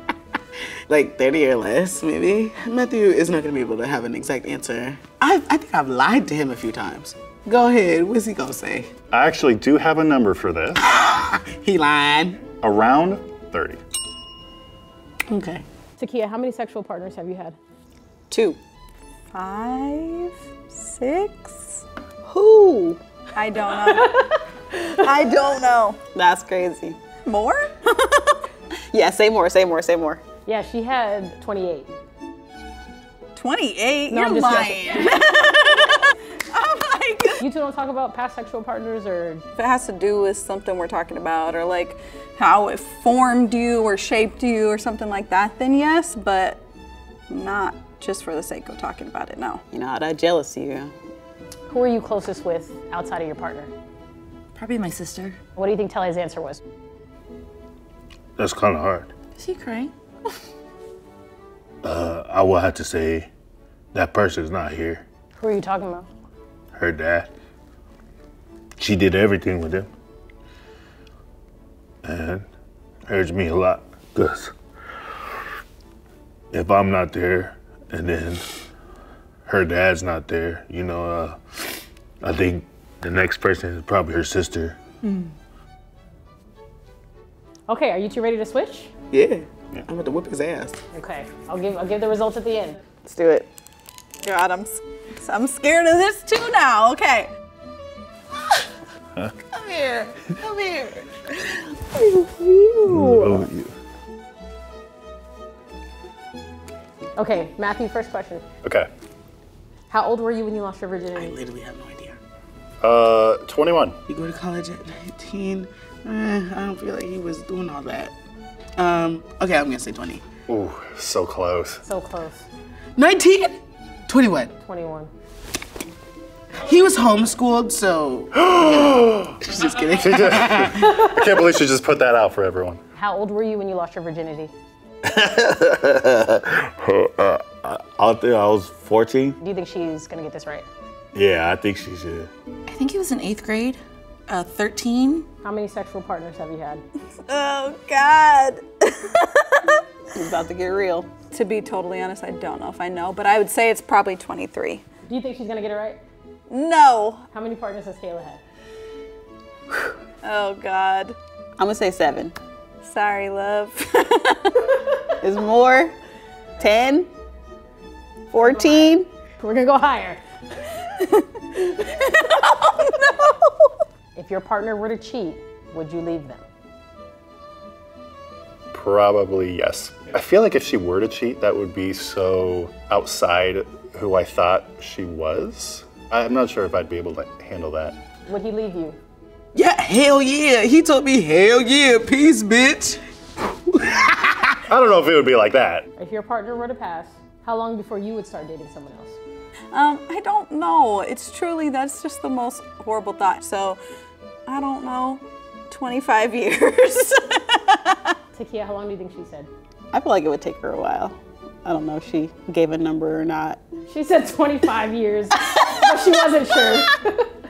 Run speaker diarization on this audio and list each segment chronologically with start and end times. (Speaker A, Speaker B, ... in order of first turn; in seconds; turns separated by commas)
Speaker A: 0.9-8.9, Speaker B: 9.1-10.8, Speaker A: 10.8-12.5, Speaker B: 12.5-13.8, Speaker A: 15.3-15.6, Speaker C: 16.0-17.6, Speaker D: 18.3-18.6, Speaker E: 19.3-21.8, Speaker D: 22.2-23.0, Speaker E: 23.3-24.2, Speaker E: 24.9-26.0, Speaker D: 26.1-27.0, Speaker E: 27.1-28.4, Speaker D: 28.9-30.2, Speaker C: 30.4-31.9, Speaker E: 33.4-37.4, Speaker C: 34.1-35.2, Speaker C: 37.4-39.4, Speaker E: 39.5-46.6, Speaker E: 47.3-49.6, Speaker D: 49.7-50.9, Speaker C: 51.7-53.7, Speaker F: 54.5-55.4, Speaker C: 55.5-56.6, Speaker G: 58.4-59.1, Speaker F: 59.4-59.9, Speaker G: 61.8-63.3, Speaker G: 63.9-65.0, Speaker C: 65.4-66.1, Speaker G: 66.7-67.3, Speaker G: 68.8-69.9, Speaker G: 72.0-72.5, Speaker G: 73.1-74.5, Speaker G: 76.5-78.6, Speaker G: 79.5-84.8, Speaker C: 87.7-88.9, Speaker A: 89.1-90.8, Speaker C: 90.9-92.8, Speaker A: 93.0-93.5, Speaker E: 94.2-97.3, Speaker A: 99.5-101.6, Speaker C: 102.0-103.3, Speaker G: 102.8-103.7, Speaker C: 107.2-108.4, Speaker C: 109.9-111.4, Speaker A: 111.1-112.2, Speaker B: 112.8-114.0, Speaker A: 114.1-118.1, Speaker A: 118.8-120.2, Speaker B: 120.5-121.8, Speaker C: 121.8-122.5, Speaker A: 123.0-124.5, Speaker C: 124.6-125.1, Speaker A: 126.6-131.0, Speaker B: 128.3-129.4, Speaker B: 130.0-132.8, Speaker C: 132.9-134.5, Speaker G: 135.0-139.4, Speaker C: 139.4-140.7, Speaker G: 141.1-142.3, Speaker F: 142.7-145.3, Speaker C: 145.4-146.8, Speaker E: 147.3-149.7, Speaker D: 150.2-151.2, Speaker E: 151.2-154.8, Speaker C: 155.1-156.0, Speaker E: 156.5-157.2, Speaker C: 157.3-158.4, Speaker E: 160.2-161.2, Speaker D: 161.6-162.3, Speaker E: 162.8-164.6, Speaker D: 165.2-165.9, Speaker D: 166.6-167.1, Speaker D: 168.3-169.1, Speaker C: 168.4-170.2, Speaker E: 171.0-173.5, Speaker C: 174.1-176.4, Speaker B: 178.7-188.0, Speaker C: 188.3-189.0, Speaker A: 189.5-193.0, Speaker A: 193.7-194.6, Speaker B: 194.7-195.8, Speaker C: 196.0-199.2, Speaker E: 199.7-203.8, Speaker E: 204.4-208.1, Speaker C: 208.3-209.5, Speaker D: 209.9-213.6, Speaker C: 213.8-217.3